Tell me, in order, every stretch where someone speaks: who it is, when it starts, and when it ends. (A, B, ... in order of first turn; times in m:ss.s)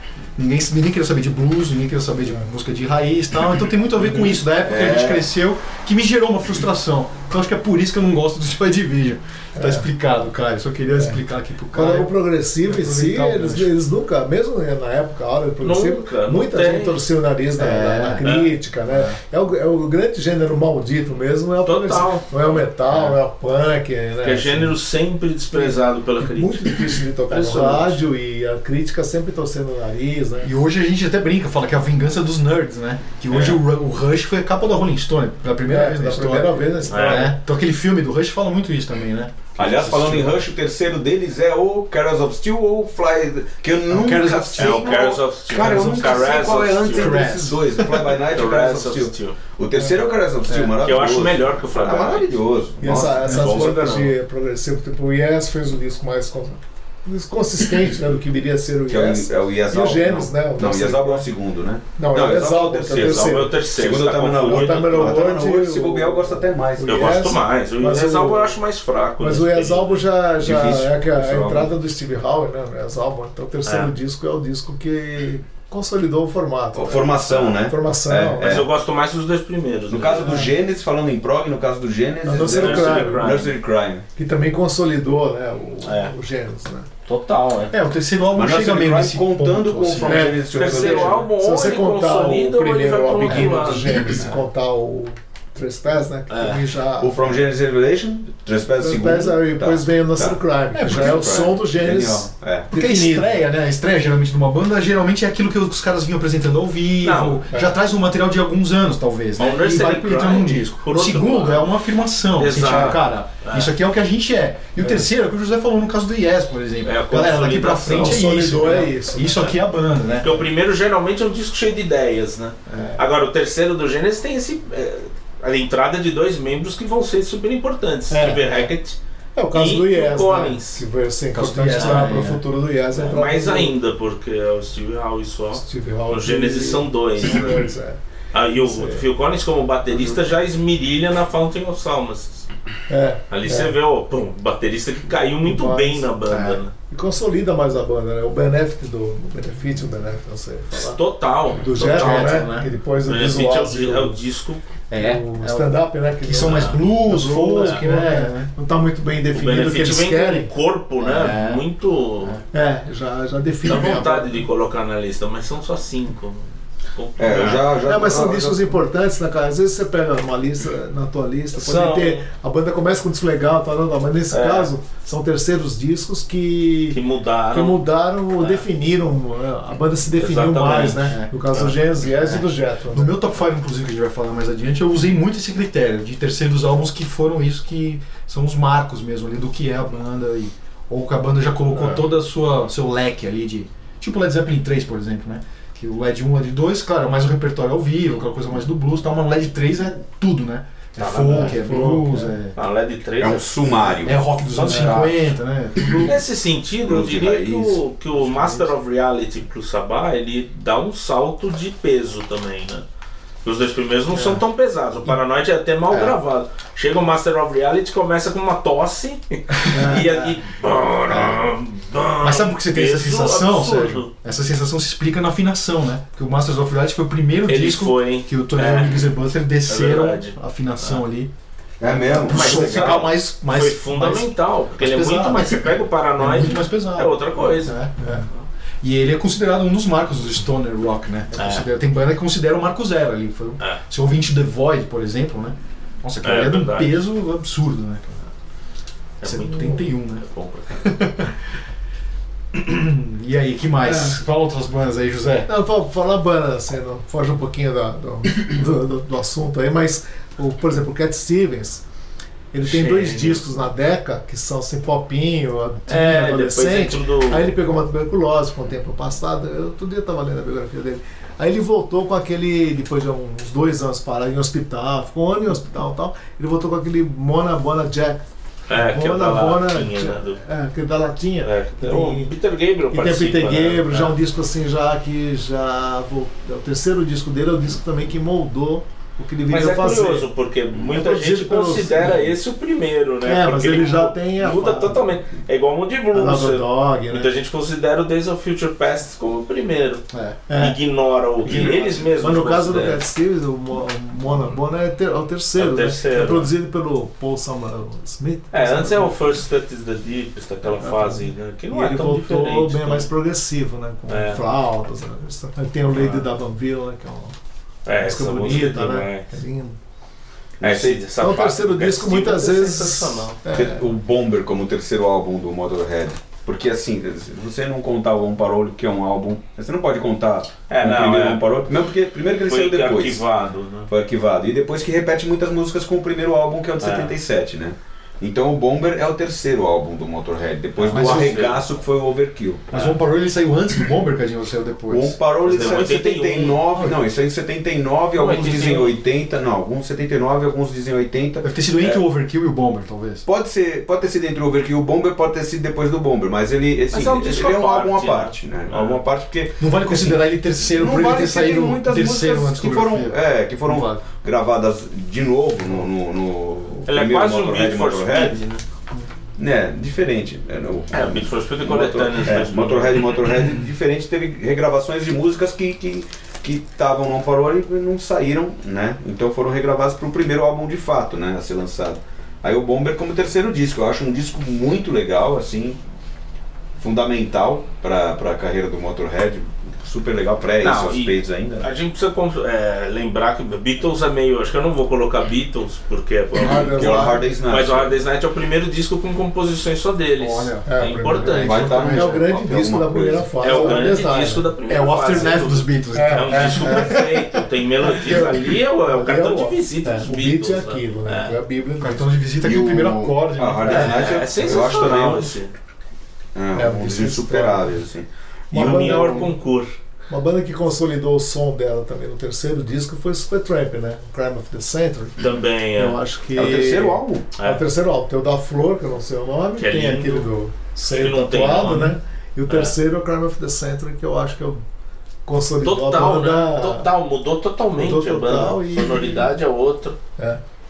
0:00.4-0:13.7 A
0:04.6-0:05.2 B
0:09.6-0:09.9 C
0:11.7-0:24.8 C
0:15.6-0:17.0 D
0:17.6-0:18.2 A
0:18.2-0:18.5 D
0:21.6-0:22.3 D
0:24.2-0:28.0 D
0:25.5-0:30.5 C
0:30.4-0:40.4 A
0:33.3-0:33.6 D
0:35.6-0:37.3 C
0:36.9-0:37.3 D
0:39.6-0:53.9 B
0:43.9-0:44.9 A
0:44.6-0:47.2 D
0:45.5-0:46.3 A
0:46.9-0:48.1 A
0:48.3-0:49.4 D
0:50.8-0:52.3 D
0:52.8-1:01.2 C
0:52.9-0:54.1 D
0:58.9-1:07.2 B
1:02.0-1:03.6 C
1:02.9-1:05.3 D
1:04.4-1:08.6 C
1:06.8-1:10.0 D
1:09.2-1:18.6 C
1:10.4-1:11.7 B
1:13.6-1:13.9 D
1:16.7-1:18.7 B
1:18.4-1:20.3 D
1:19.9-1:24.0 B
1:20.1-1:20.5 C
1:22.2-1:23.5 C
1:22.4-1:23.5 D
1:24.1-1:26.9 C
1:25.8-1:26.1 D
1:27.0-1:27.7 D
1:27.6-1:30.4 A
1:28.3-1:31.2 B
1:30.0-1:37.1 C
1:30.5-1:34.2 D
1:33.3-1:34.0 A
1:34.0-1:34.4 B
1:36.3-1:36.6 D
1:37.0-1:42.7 B
1:38.8-1:43.3 C
1:40.7-1:41.3 A
1:42.7-2:00.5 A
1:47.0-1:47.4 D
1:49.4-1:51.7 D
1:52.4-1:53.7 D
1:56.8-1:58.3 D
1:57.9-1:59.6 C
2:00.2-2:09.0 D
2:02.7-2:03.0 C
2:08.1-2:08.7 C
2:09.3-2:13.7 C
2:09.5-2:10.8 D
2:11.3-2:12.4 A
2:11.7-2:12.2 D
2:12.9-2:17.7 D
2:15.5-2:18.0 C
2:18.3-2:22.4 D
2:18.5-2:19.1 C
2:22.9-2:23.7 C
2:23.3-2:26.7 D
2:25.4-2:26.1 C
2:26.3-2:26.6 A
2:26.9-2:31.0 C
2:30.8-2:32.4 D
2:31.6-2:34.2 C
2:31.8-2:32.7 A
2:33.0-2:34.6 D
2:34.9-2:38.5 A
2:34.9-2:40.5 C
2:36.4-2:36.8 D
2:39.3-2:42.4 D
2:41.0-2:41.6 A
2:42.5-2:44.4 C
2:43.6-2:47.7 D
2:47.2-2:48.7 B
2:47.8-2:57.0 C
2:51.6-2:52.3 D
2:54.3-2:54.7 D
2:56.9-2:57.8 D
2:57.5-3:03.2 C
2:58.4-2:58.6 D
3:00.2-3:01.7 D
3:01.1-3:01.3 A
3:02.1-3:22.5 A
3:21.0-3:21.9 D
3:21.2-3:22.4 C
3:22.5-3:24.0 D
3:23.2-3:24.2 B
3:24.0-3:26.2 A
3:24.5-3:25.2 D
3:24.7-3:25.0 C
3:26.0-3:32.8 D
3:26.8-3:27.8 B
3:28.2-3:28.7 A
3:33.4-3:44.1 D
3:35.9-3:36.1 A
3:39.6-3:40.3 A
3:39.7-3:40.0 C
3:42.2-3:51.3 A
3:47.5-3:49.1 D
3:49.7-3:51.0 D
3:51.8-3:53.0 B
3:51.8-3:58.2 A
3:52.3-3:58.4 D
3:58.8-4:08.2 A
4:01.4-4:01.7 D
4:06.2-4:07.0 D
4:09.2-4:11.0 D
4:09.2-4:10.2 A
4:10.8-4:11.3 A
4:12.5-4:15.5 A
4:13.8-4:14.2 C
4:15.5-4:21.8 C
4:22.5-4:42.3 C
4:22.6-4:23.4 D
4:25.9-4:27.5 D
4:38.7-4:40.4 D
4:41.4-4:44.1 D
4:42.9-4:50.3 C
4:49.5-5:03.0 D
4:50.8-4:52.3 C
4:53.2-4:55.1 C
4:56.1-4:57.3 C
5:00.1-5:00.4 A
5:00.5-5:00.8 C
5:01.5-5:01.8 B
5:01.5-5:09.4 C
5:05.5-5:06.5 D
5:08.5-5:13.1 D
5:10.8-5:17.4 C
5:14.1-5:14.4 D
5:15.9-5:16.3 D
5:17.8-5:19.3 D
5:18.0-5:19.8 C
5:20.6-5:21.0 B
5:20.6-5:23.4 D
5:21.2-5:23.8 C
5:23.5-5:33.2 B
5:30.7-5:31.4 D
5:32.5-5:33.9 D
5:33.9-5:42.8 B
5:36.8-5:37.1 D
5:40.8-5:41.6 D
5:40.8-5:41.4 A
5:42.7-5:45.8 A
5:44.9-5:52.0 B
5:45.4-5:46.6 D
5:46.7-5:47.0 A
5:48.1-5:49.0 D
5:51.4-5:53.2 A
5:53.2-6:08.4 B
5:56.9-5:59.0 D
5:59.6-6:04.0 A
6:06.9-6:08.6 D
6:09.4-6:25.8 B
6:10.9-6:13.1 D
6:26.8-6:31.7 B
6:30.6-6:41.8 D
6:36.4-6:37.3 C
6:36.4-6:38.0 B
6:40.2-6:42.2 A
6:40.6-6:44.5 C
6:41.4-6:43.8 B
6:43.4-6:51.4 D
6:44.7-6:47.0 A
6:45.9-6:52.2 C
6:51.8-6:54.1 A
6:52.4-6:55.4 B
6:53.6-6:55.5 D
6:56.3-6:58.0 B
6:56.5-6:57.8 C
6:58.5-6:59.3 C
6:58.5-6:59.8 D
6:58.6-6:59.0 B
7:00.1-7:05.2 C
7:05.2-7:06.0 D
7:05.7-7:14.6 C
7:06.3-7:07.3 B
7:07.4-7:07.6 D
7:09.6-7:10.3 D
7:10.9-7:11.9 D
7:12.5-7:12.7 D
7:15.2-7:16.9 C
7:15.6-7:20.0 D
7:17.7-7:19.3 C